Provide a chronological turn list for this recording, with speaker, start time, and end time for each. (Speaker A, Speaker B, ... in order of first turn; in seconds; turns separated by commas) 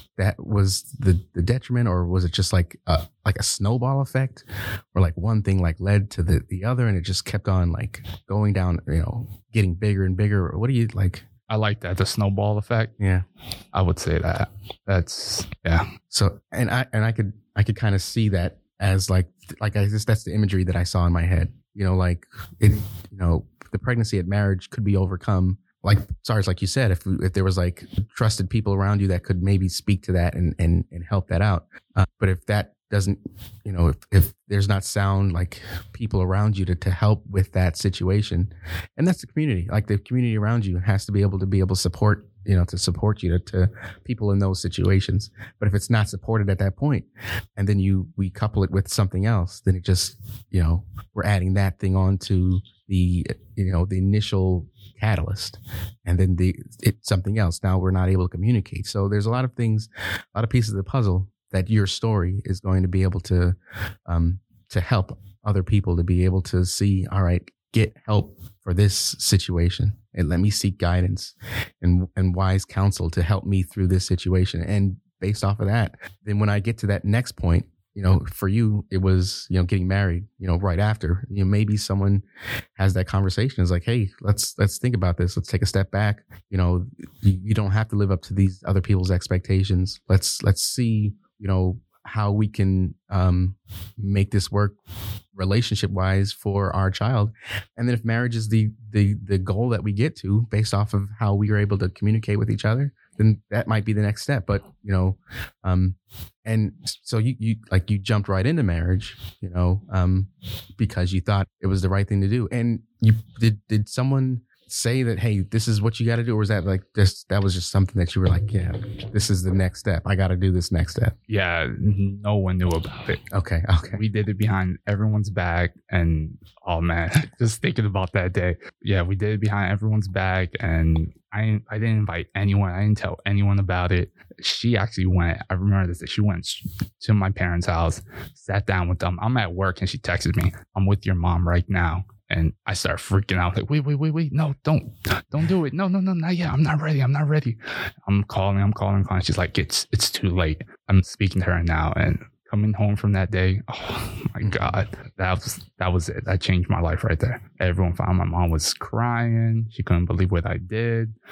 Speaker A: 0.1-11.2, Speaker B: 11.5-12.9, Speaker A: 13.0-13.2, Speaker B: 13.7-15.8, Speaker A: 16.1-82.2, Speaker A: 82.8-94.8, Speaker A: 95.3-121.1, Speaker B: 121.3-123.2, Speaker A: 123.3-124.0, Speaker B: 123.9-161.1, Speaker A: 154.4-154.8